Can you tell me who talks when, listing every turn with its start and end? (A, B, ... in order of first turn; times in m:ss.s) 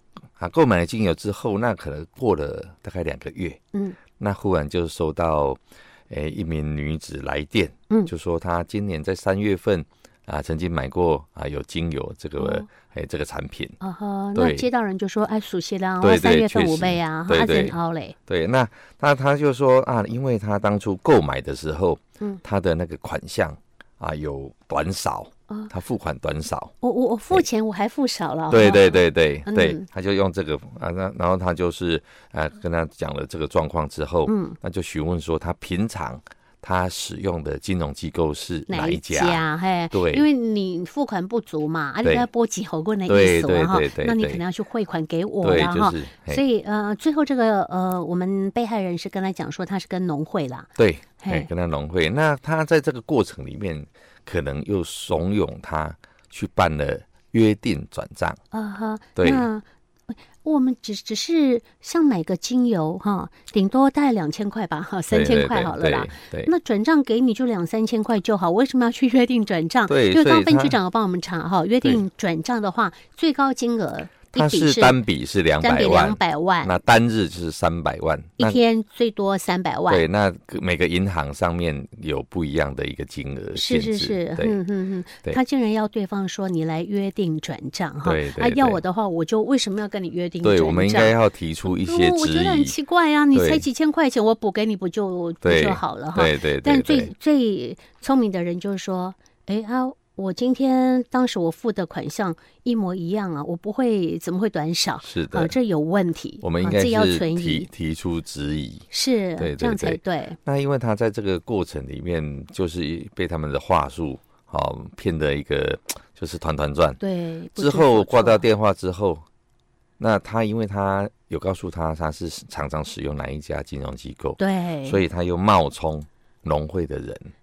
0:00.4-0:03.6 A
0:04.2-0:13.8 A
0:12.4-0:12.7 B
0:13.8-0:18.2 B
0:14.4-0:14.7 A
0:16.0-0:17.8 A
0:18.3-0:26.7 A
0:26.8-0:29.9 B
0:28.5-0:40.3 A
0:34.3-0:34.6 B
0:38.7-0:50.7 B
0:43.1-0:44.4 A
0:45.4-0:46.4 A
0:50.8-0:58.4 A
0:51.2-0:51.5 B
0:58.5-1:15.0 B
0:59.2-0:59.5 A
1:05.1-1:06.5 A
1:09.9-1:10.8 A
1:14.4-1:18.6 A
1:15.6-1:16.8 B
1:18.4-1:20.1 B
1:19.9-1:24.6 A
1:23.6-1:31.2 B
1:28.0-1:28.8 A
1:30.4-1:32.8 A
1:31.7-1:47.7 B
1:33.3-1:33.6 A
1:35.4-1:37.1 A
1:45.0-1:45.5 A
1:46.4-1:48.8 A
1:48.9-1:50.4 B
1:49.4-1:57.0 A
1:57.0-1:58.5 B
1:57.6-1:59.2 A
2:00.0-2:07.3 A
2:04.4-2:05.0 B